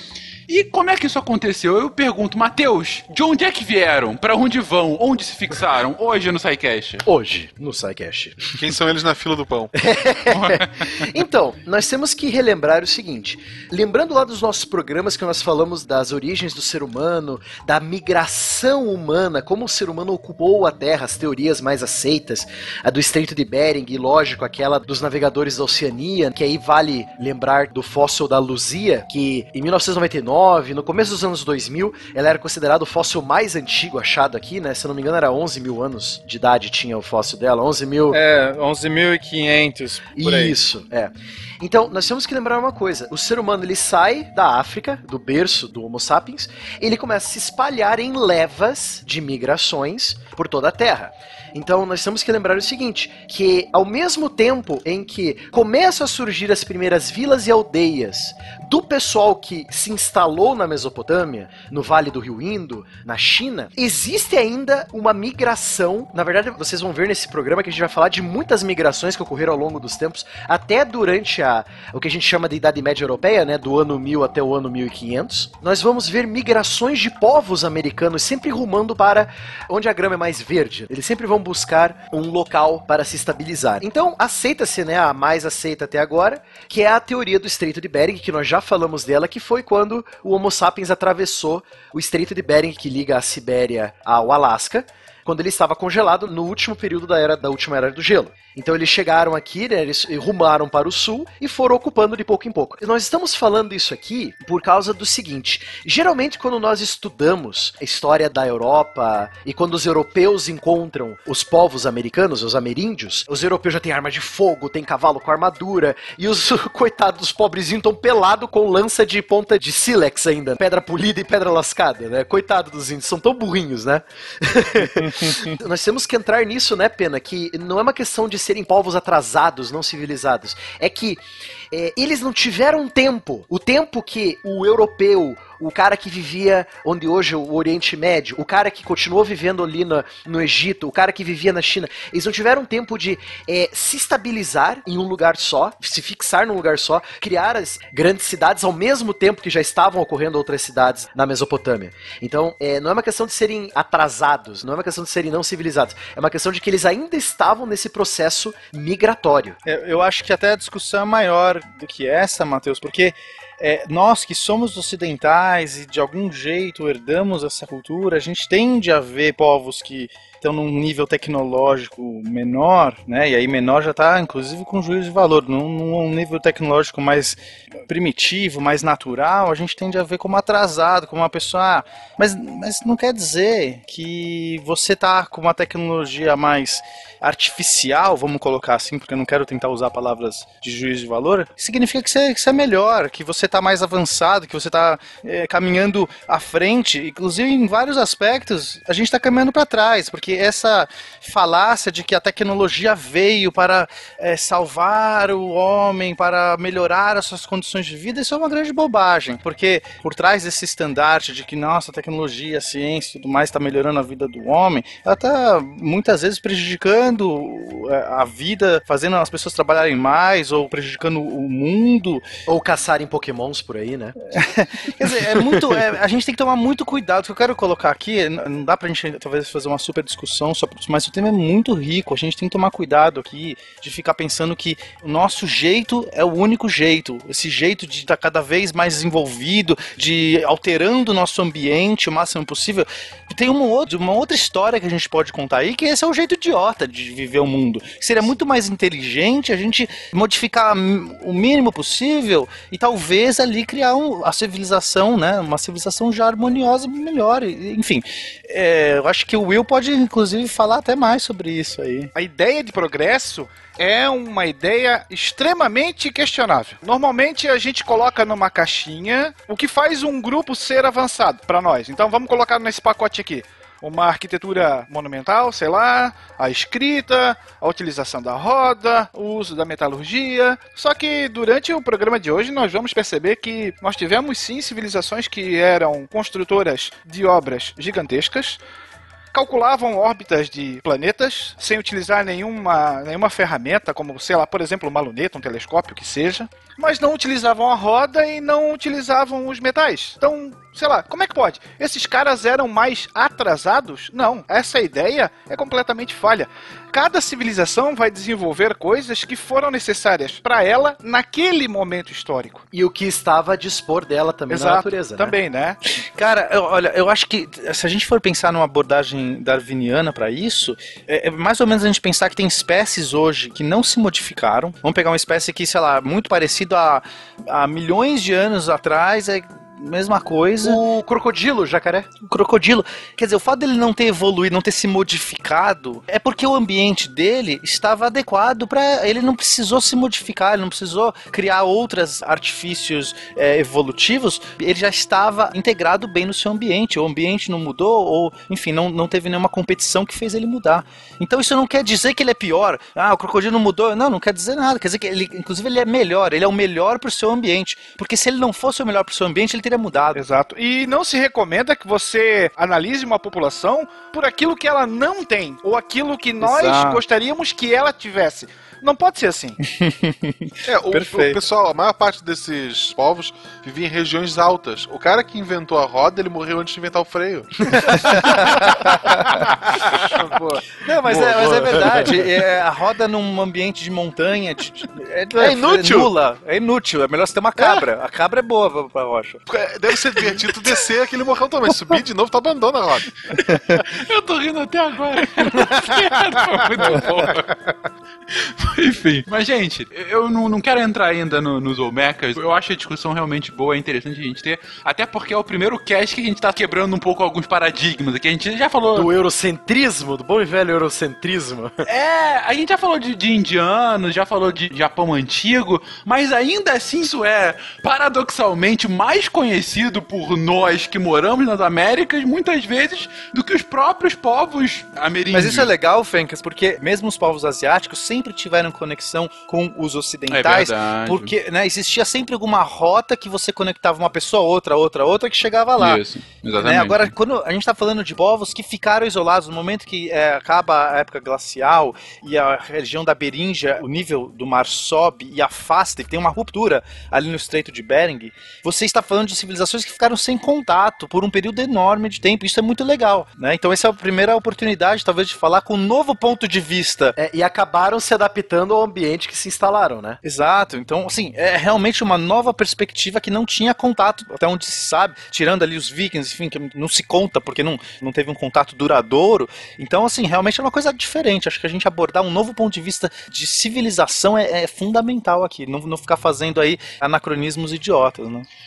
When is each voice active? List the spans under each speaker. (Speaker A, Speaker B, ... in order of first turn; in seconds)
Speaker A: 0.5-7.0, 10.3-10.6, 393.9-397.6, 398.6-409.1, 411.9-425.7, 430.3-431.3, 435.8-437.1
Speaker B: 7.1-8.4, 9.8-38.2, 40.2-159.6, 222.5-224.2, 312.7-315.4, 330.6-332.1, 381.1-382.1, 408.9-411.8, 457.2-460.2
Speaker C: 8.6-9.7, 370.7-378.1, 385.5-385.9, 389.5-393.1
Speaker D: 38.1-40.6, 159.7-222.3, 224.3-262.1, 316.1-330.8, 332.2-360.2, 366.4-367.0, 369.6-371.4, 378.0-379.1, 380.8-389.4, 425.3-436.0, 436.6-457.2, 460.2-478.5
Speaker E: 262.1-288.6, 289.3-312.6, 314.5-315.8, 360.1-369.6